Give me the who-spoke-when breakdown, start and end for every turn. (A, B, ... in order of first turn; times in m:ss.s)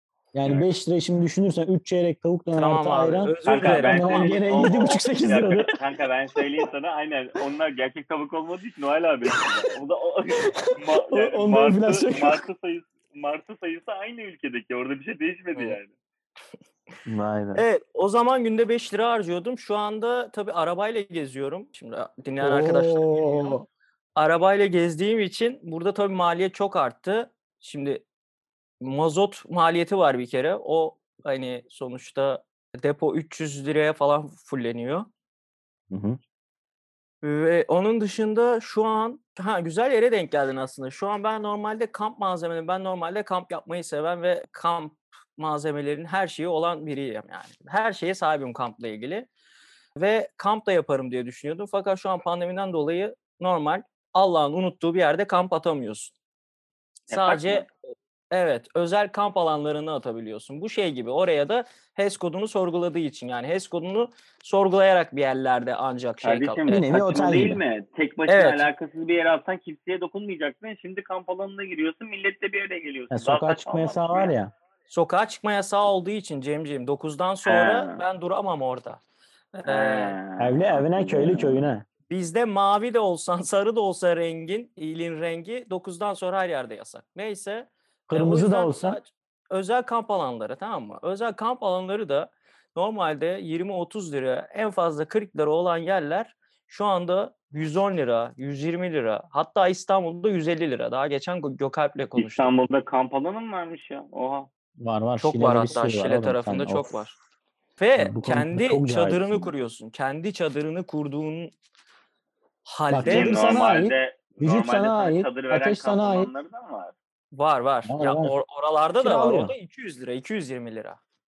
0:00.3-0:05.7 A
0:02.6-0:04.3 B
0:03.5-0:15.9 C
0:11.1-0:12.4 A
0:17.1-0:17.6 A
0:17.6-0:23.6 B
0:22.4-0:23.6 A
0:24.2-0:28.0 B
0:28.8-0:35.1 B
0:35.9-0:36.2 A
0:37.2-0:49.3 B
0:50.0-0:56.1 B
0:57.1-0:57.7 C
0:57.1-0:57.7 B
0:58.3-1:06.9 B
1:06.2-1:14.3 C
1:06.7-1:07.6 A
1:08.3-1:08.7 B
1:13.1-1:14.5 A
1:14.9-1:19.0 B
1:17.4-1:18.0 C
1:19.5-1:20.2 B
1:19.7-1:21.6 C
1:20.4-1:21.9 A
1:22.1-1:42.5 B
1:28.1-1:29.0 A
1:42.2-1:44.5 C
1:44.8-1:47.0 A
1:45.2-1:47.2 B
1:47.8-1:51.5 B
1:48.0-1:49.5 A
1:52.6-1:53.4 B
1:52.9-1:56.3 A
1:53.0-1:57.0 C
1:57.3-2:01.0 B
1:57.9-1:58.3 A
1:59.0-1:59.5 A